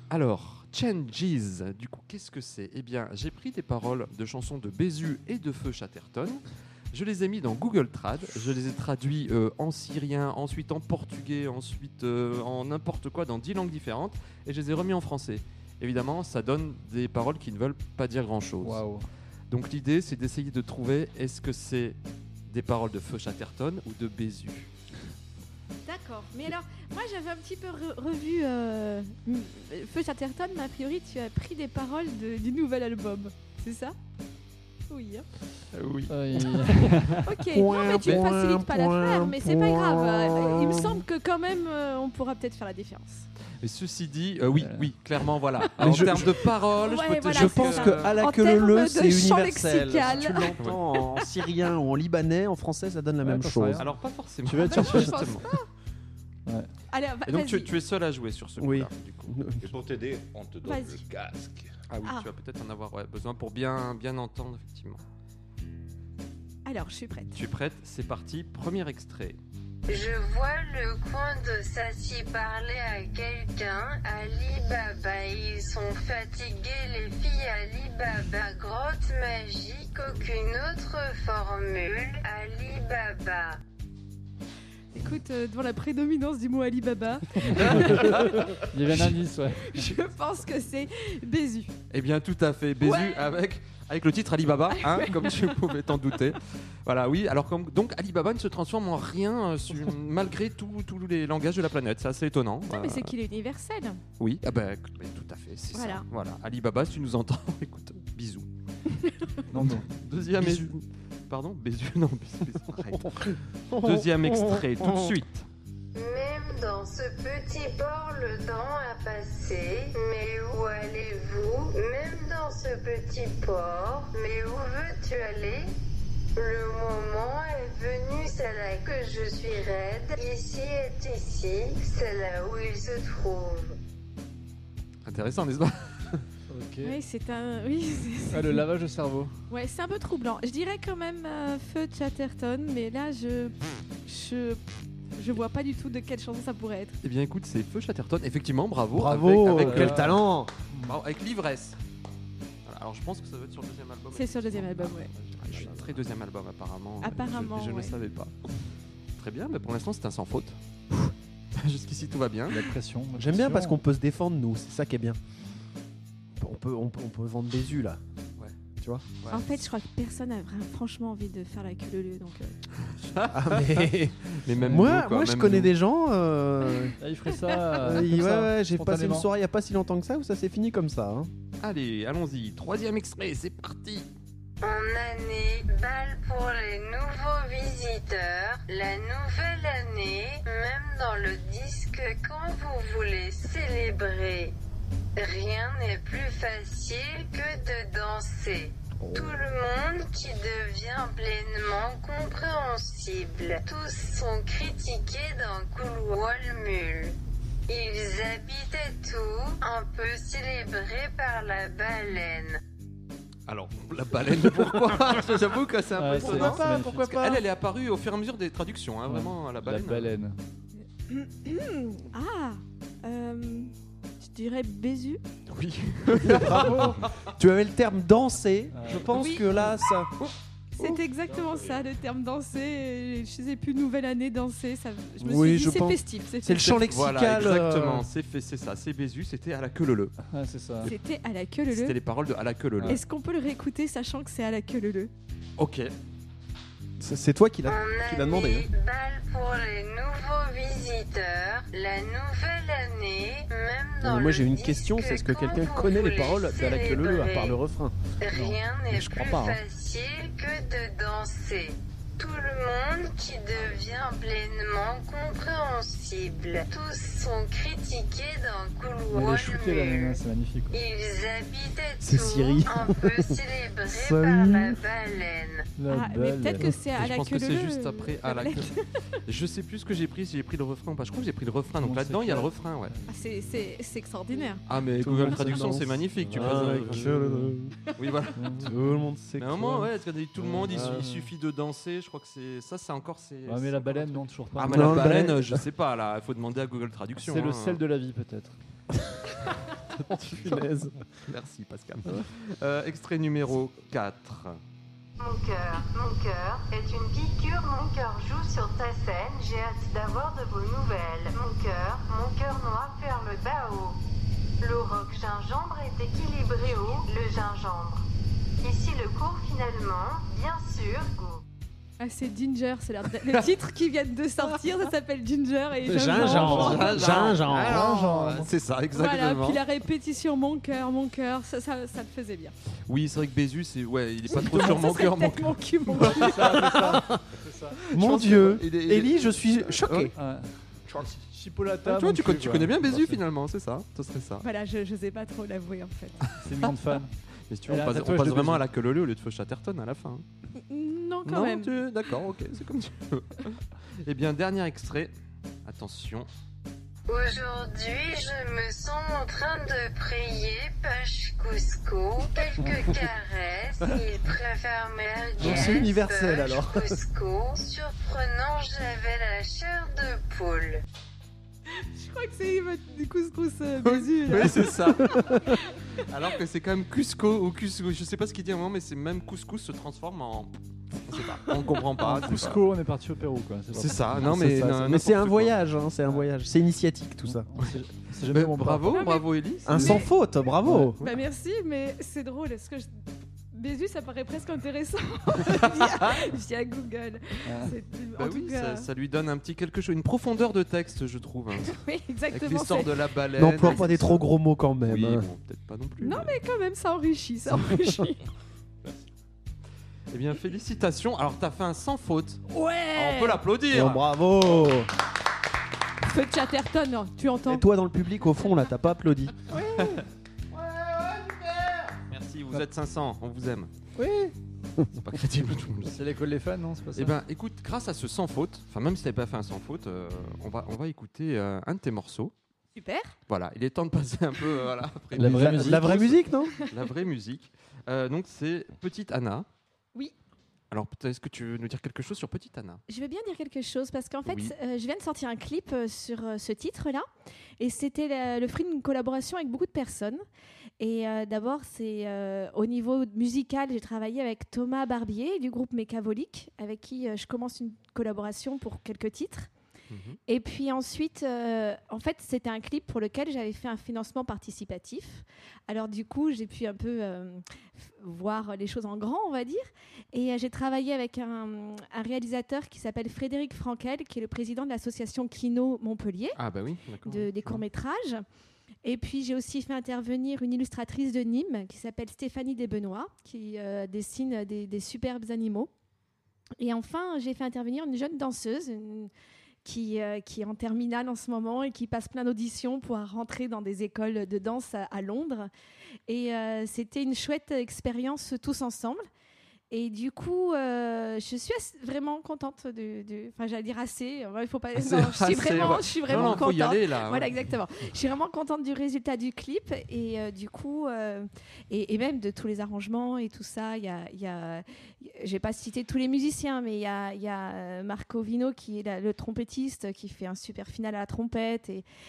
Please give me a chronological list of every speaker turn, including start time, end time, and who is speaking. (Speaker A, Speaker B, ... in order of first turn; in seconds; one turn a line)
Speaker A: 0.1-18.8
Speaker B: 18.6-19.1
Speaker A: 19.5-22.0
Speaker A: 22.5-24.7
Speaker C: 25.9-34.0
Speaker C: 34.9-35.3
Speaker A: 35.7-36.9
Speaker B: 36.1-37.3
Speaker C: 37.2-43.3
Speaker D: 37.5-41.0
Speaker A: 43.6-48.1
Speaker B: 44.5-44.9
Speaker D: 45.8-46.4
Speaker C: 46.8-51.3
Speaker D: 47.3-53.9
Speaker B: 53.2-53.9
Speaker A: 53.8-55.5
Speaker B: 54.5-55.2
Speaker C: 54.6-55.7
Speaker C: 56.9-57.7
Speaker A: 57.3-59.3
Speaker D: 58.6-59.7
Speaker E: 59.6-61.7
Speaker C: 60.6-61.0
Speaker A: 61.9-65.0
Speaker C: 66.7-67.4
Speaker A: 67.3-69.4
Speaker F: 69.9-83.6
Speaker C: 84.9-88.6
Speaker B: 87.5-89.9
Speaker A: 87.5-88.2
Speaker C: 89.6-91.7
Speaker A: 91.9-103.1
Speaker C: 92.8-93.3
Speaker C: 94.8-95.6
Speaker C: 102.7-104.0
Speaker A: 104.2-108.5
Speaker C: 105.7-106.0
Speaker C: 109.0-109.4
Speaker B: 109.5-109.9
Speaker A: 109.6-115.5
Speaker D: 113.7-115.2
Speaker F: 116.0-125.7
Speaker F: 126.4-133.7
Speaker A: 135.1-136.2
Speaker B: 136.5-137.0
Speaker C: 136.8-138.6
Speaker B: 138.3-139.3
Speaker C: 139.5-144.6
Speaker C: 145.2-147.0
Speaker A: 147.0-150.2
Speaker D: 148.9-150.5
Speaker B: 149.6-151.0
Speaker A: 150.8-151.8
Speaker A: 152.7-158.3
Speaker C: 154.1-155.1
Speaker C: 157.0-157.9
Speaker A: 159.2-160.6
Speaker A: 161.6-162.7
Speaker B: 162.5-163.8
Speaker D: 163.2-165.2
Speaker D: 166.4-168.0
Speaker D: 168.8-169.0
Speaker A: 169.2-169.4
Speaker C: 169.3-172.5
Speaker A: 172.9-175.7
Speaker D: 173.3-177.0
Speaker B: 174.6-175.0
Speaker B: 177.0-179.3
Speaker C: 177.3-177.8
Speaker D: 177.8-181.3
Speaker A: 181.6-184.1
Speaker F: 184.6-194.5
Speaker F: 195.2-207.2
Speaker D: 199.0-199.4
Speaker F: 207.7-212.6
Speaker A: 213.5-220.2
Speaker B: 216.0-217.0
Speaker D: 216.1-217.4
Speaker B: 219.1-220.4
Speaker C: 221.1-225.2
Speaker A: 225.5-227.1
Speaker B: 226.2-227.1
Speaker D: 226.4-230.1
Speaker B: 228.7-229.1
Speaker C: 229.1-229.4
Speaker C: 230.8-236.7
Speaker B: 231.3-231.6
Speaker D: 235.2-238.1
Speaker A: 236.6-240.2
Speaker B: 240.3-240.9
Speaker C: 240.8-242.0
Speaker A: 241.7-243.0
Speaker C: 242.9-245.1
Speaker A: 245.6-245.9
Speaker D: 247.0-248.7
Speaker F: 247.7-257.6
Speaker D: 254.0-257.9
Speaker F: 258.2-270.2
Speaker B: 258.3-258.6
Speaker D: 258.9-259.6
Speaker B: 269.1-270.8
Speaker F: 270.7-275.7
Speaker D: 272.0-274.8
Speaker B: 275.8-276.8
Speaker C: 275.9-278.9
Speaker A: 277.0-278.7
Speaker A: 279.2-283.0
Speaker B: 281.8-283.0
Speaker C: 283.1-284.6
Speaker A: 284.7-287.1
Speaker D: 285.0-287.8
Speaker B: 285.3-285.6
Speaker B: 286.3-287.6
Speaker A: 288.0-288.4
Speaker B: 288.4-288.9
Speaker D: 288.6-289.9
Speaker A: 289.4-297.8
Speaker B: 290.4-291.3
Speaker D: 290.7-291.0
Speaker B: 293.5-295.3
Speaker D: 294.7-295.6
Speaker B: 297.2-298.6
Speaker A: 300.1-300.6
Speaker D: 300.2-301.0
Speaker A: 301.3-304.6
Speaker F: 305.2-314.0
Speaker F: 314.6-318.1
Speaker F: 318.6-321.4
Speaker C: 322.0-327.0
Speaker D: 325.9-327.9
Speaker B: 326.1-328.5
Speaker A: 326.3-329.6
Speaker C: 328.9-332.5
Speaker A: 332.9-337.1
Speaker C: 334.3-336.8
Speaker B: 336.1-337.8
Speaker A: 337.9-340.1
Speaker D: 337.9-340.1
Speaker B: 340.2-343.2
Speaker A: 341.8-344.4
Speaker C: 344.4-346.2
Speaker B: 346.4-347.1
Speaker A: 347.5-350.2
Speaker B: 347.7-348.6
Speaker C: 350.6-351.8
Speaker A: 351.2-355.1
Speaker A: 355.6-356.3
Speaker F: 357.1-370.8
Speaker D: 365.4-367.0
Speaker C: 371.8-376.1
Speaker A: 373.8-375.4
Speaker D: 375.0-375.5
Speaker A: 376.0-382.6
Speaker B: 382.0-384.3
Speaker A: 383.7-385.6
Speaker D: 384.2-387.5
Speaker B: 387.3-389.1
Speaker A: 388.3-390.0
Speaker C: 388.9-390.1
Speaker D: 389.7-391.0
Speaker B: 389.7-390.0
Speaker B: 390.6-390.9
Speaker C: 391.0-392.9
Speaker C: 393.5-398.9
Speaker A: 395.4-396.3
Speaker B: 397.5-397.8
Speaker A: 398.2-404.3
Speaker C: 401.7-402.9
Speaker D: 403.4-405.3
Speaker C: 403.6-403.9
Speaker A: 404.8-406.4
Speaker C: 406.0-408.2
Speaker A: 410.1-412.4
Speaker C: 412.5-413.4
Speaker A: 412.9-414.1
Speaker D: 413.7-414.9
Speaker C: 416.0-417.7
Speaker D: 417.5-419.4
Speaker A: 419.7-420.0
Speaker A: 422.1-423.7
Speaker D: 424.0-424.2
Speaker A: 425.0-426.0
Speaker B: 425.9-427.2
Speaker A: 426.9-432.3
Speaker C: 432.8-433.2
Speaker A: 433.3-439.5
Speaker B: 435.1-436.0
Speaker D: 435.2-436.5
Speaker A: 440.7-442.8
Speaker C: 442.9-447.1
Speaker A: 444.3-444.5
Speaker C: 447.6-450.2
Speaker C: 450.8-459.5
Speaker A: 459.9-460.2
Speaker C: 460.3-476.4
Speaker A: 476.4-477.6
Speaker C: 477.0-478.2
Speaker C: 478.8-485.7
Speaker C: 486.6-489.1
Speaker C: 489.6-495.5
Speaker C: 496.1-499.1
Speaker C: 499.7-521.9
Speaker A: 504.8-507.3